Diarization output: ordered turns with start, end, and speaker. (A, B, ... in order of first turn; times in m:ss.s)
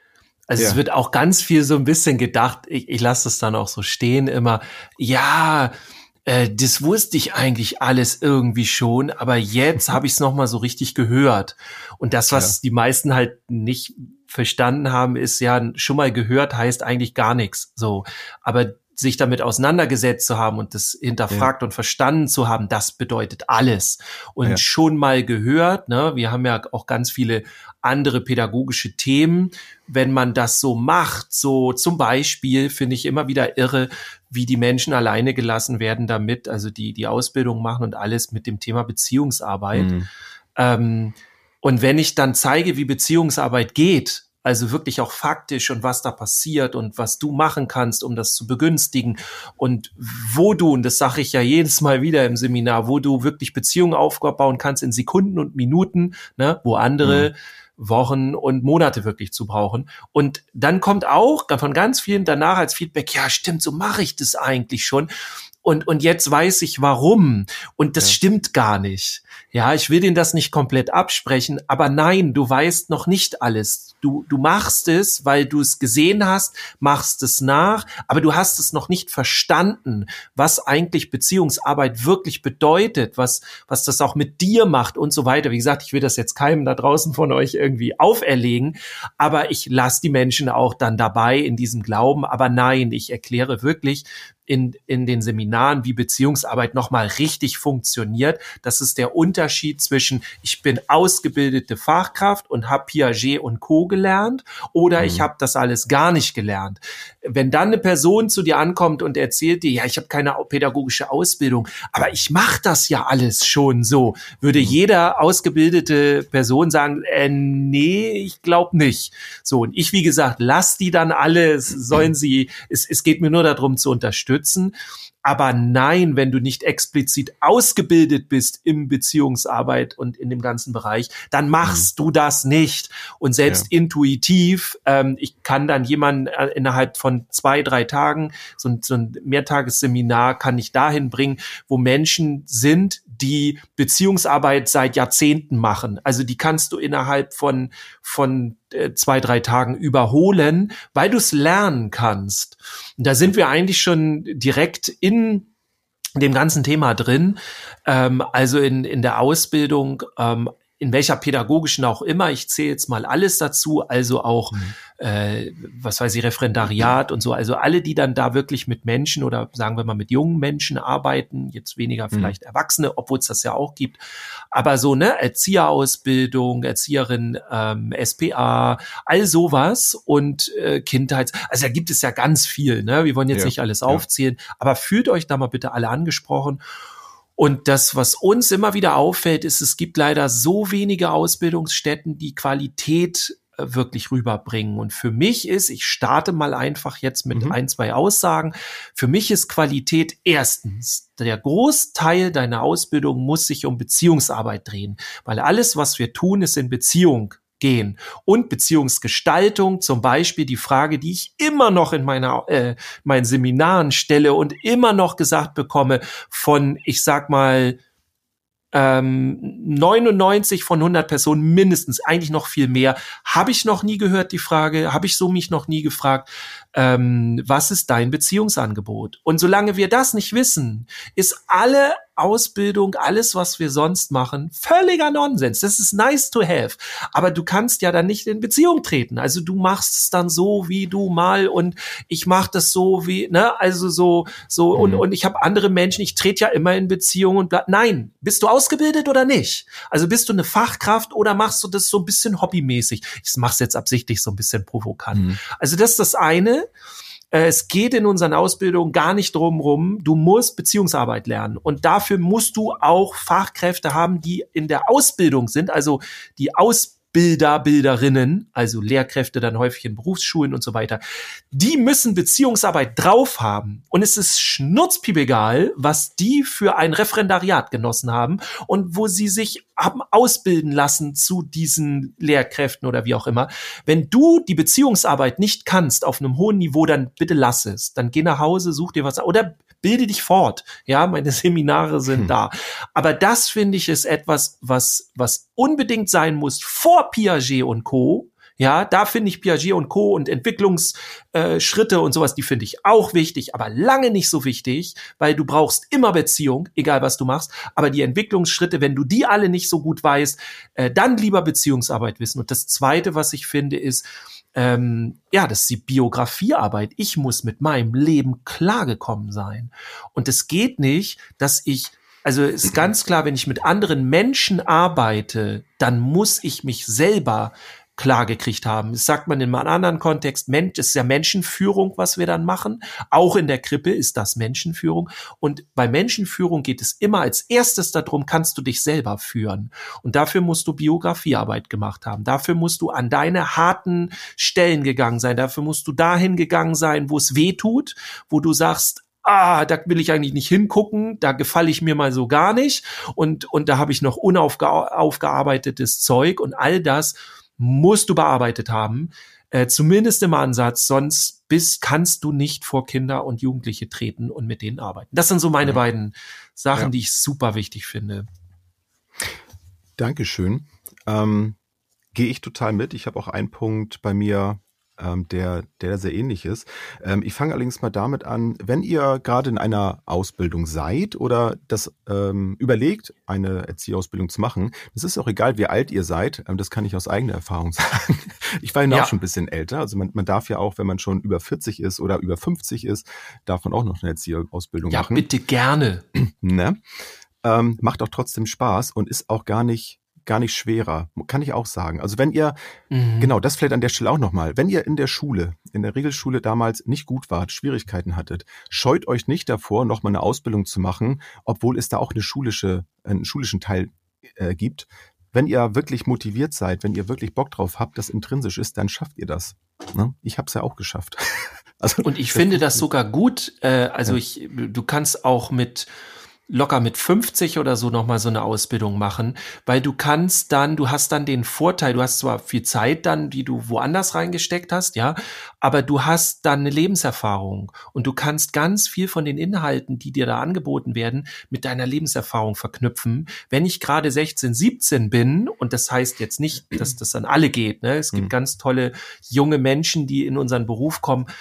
0:00.5-0:39.9 A
0:12.3-0:12.6 B
0:39.7-0:40.1 B
0:40.6-1:05.1 A
0:57.0-0:57.3 B
1:05.6-2:35.5 A
1:45.0-1:45.3 B
2:11.6-2:11.9 B
2:36.2-2:54.0 A
2:54.5-3:06.6 A
3:03.3-3:04.0 B
3:07.4-3:37.8 A
3:17.3-3:17.6 B
3:38.7-4:16.7 A
4:04.8-4:05.0 B
4:15.1-4:15.4 B
4:17.3-4:31.0 A
4:31.5-6:08.3 A
6:10.0-6:11.6 B
6:12.1-6:35.3 B
6:34.9-6:36.0 A
6:36.2-6:36.8 B
6:37.4-6:42.6 B
6:42.9-6:43.3 A
6:43.2-7:02.8 B
7:02.0-7:05.9 A
7:06.5-7:31.3 A